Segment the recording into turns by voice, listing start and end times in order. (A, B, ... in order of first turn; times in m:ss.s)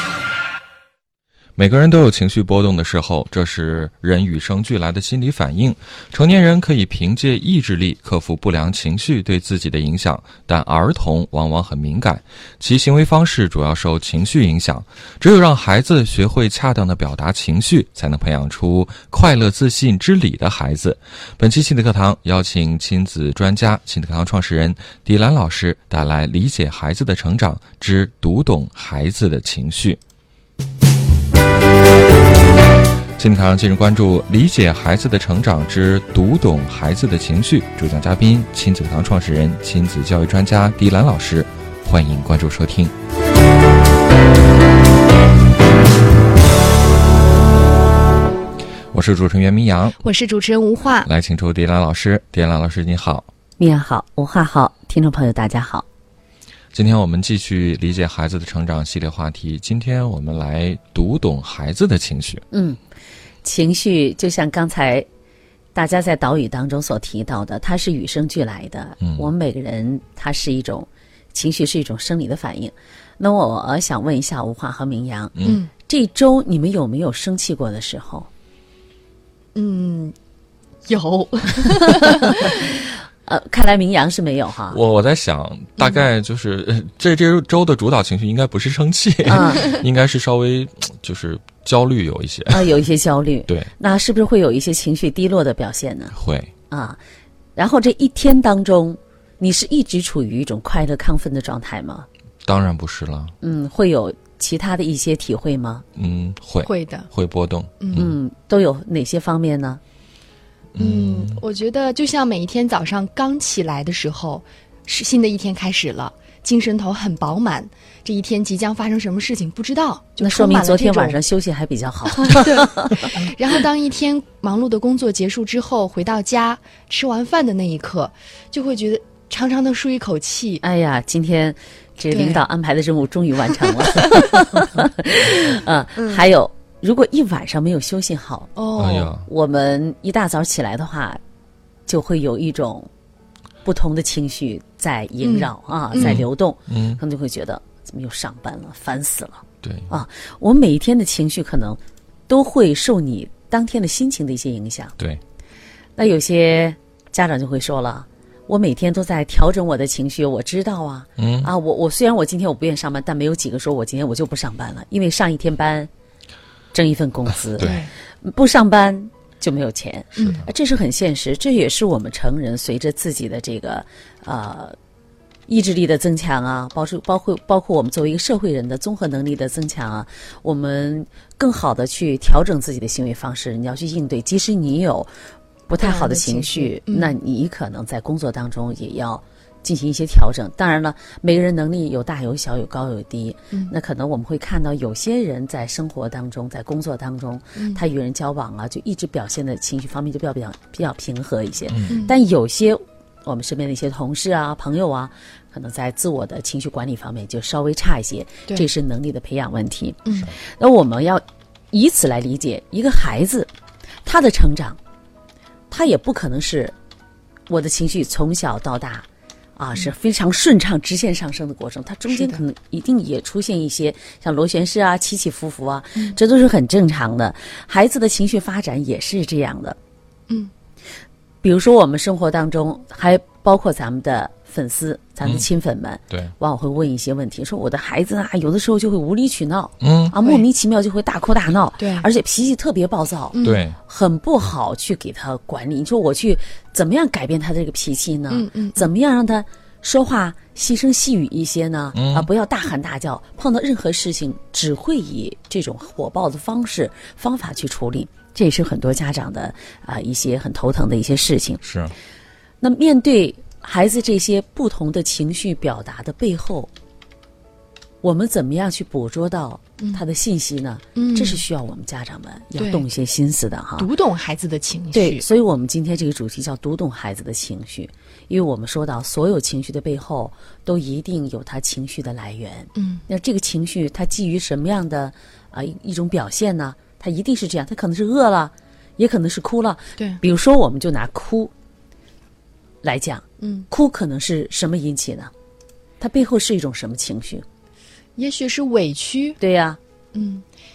0:01.6-0:30.0 A
0:33.2-0:42.9 A
0:48.9-0:50.0 A
0:50.0-0:51.1 B
0:51.0-0:53.3 A
0:53.6-0:55.8 C
0:56.7-1:02.4 A
1:02.5-1:02.8 C
1:03.4-1:05.0 C
1:05.7-1:18.3 C
1:09.0-1:09.3 A
1:15.4-1:15.6 A
1:19.5-1:20.1 B
1:20.9-1:22.6 B
1:23.3-1:24.8 C
1:24.7-1:32.7 A
1:25.8-1:26.0 B
1:29.2-1:29.7 C
1:32.5-1:36.1 C
1:36.1-1:36.5 A
1:36.7-1:37.0 C
1:37.6-1:42.0 C
1:42.4-1:43.3 A
1:43.4-1:45.8 C
1:46.0-1:48.1 A
1:46.6-1:47.1 B
1:47.8-1:48.1 B
1:47.9-1:49.8 C
1:50.7-1:51.4 A
1:50.8-2:01.2 B
2:00.2-2:03.2 C
2:02.2-2:10.6 B
2:10.6-2:18.5 C
2:12.1-2:12.4 B
2:13.6-2:14.3 B
2:18.6-2:19.1 B
2:18.8-2:19.3 A
2:19.2-2:21.2 C
2:21.9-2:22.9 C
2:23.6-2:34.9 C
2:25.2-2:26.2 B
2:25.9-2:27.0 A
2:29.6-2:29.9 A
2:36.0-2:45.9 C
2:41.2-2:41.5 A
2:46.7-2:47.7 C
2:47.6-2:47.9 A
2:47.6-2:47.9 B
2:48.2-2:54.8 C
2:50.1-2:50.4 B
2:50.1-2:50.5 A
2:55.5-3:05.1 C
3:05.7-3:33.5 C
3:05.8-3:07.1 B
3:21.7-3:22.0 A
3:21.9-3:22.1 B
3:30.0-3:30.3 B
3:34.0-3:34.8 C
3:35.7-3:36.7 C
3:37.5-3:49.8 C
3:42.1-3:42.4 B
3:51.4-4:21.6 C
3:59.8-4:00.1 A
4:01.8-4:02.1 B
4:03.3-4:03.6 B
4:03.4-4:03.8 A
4:08.3-4:08.9 B
4:11.9-4:12.3 A
4:21.6-4:21.9 A
4:22.6-4:26.7 C
4:28.0-4:33.9 C
4:30.9-4:31.4 B
4:32.6-4:32.8 B
4:33.8-4:35.2 B
4:34.9-4:51.5 C
4:42.7-4:43.0 B
4:52.8-4:55.3 C
4:53.4-4:53.7 B
4:56.0-4:57.4 C
4:58.2-4:59.4 B
4:59.4-4:59.8 C
5:00.1-5:00.4 B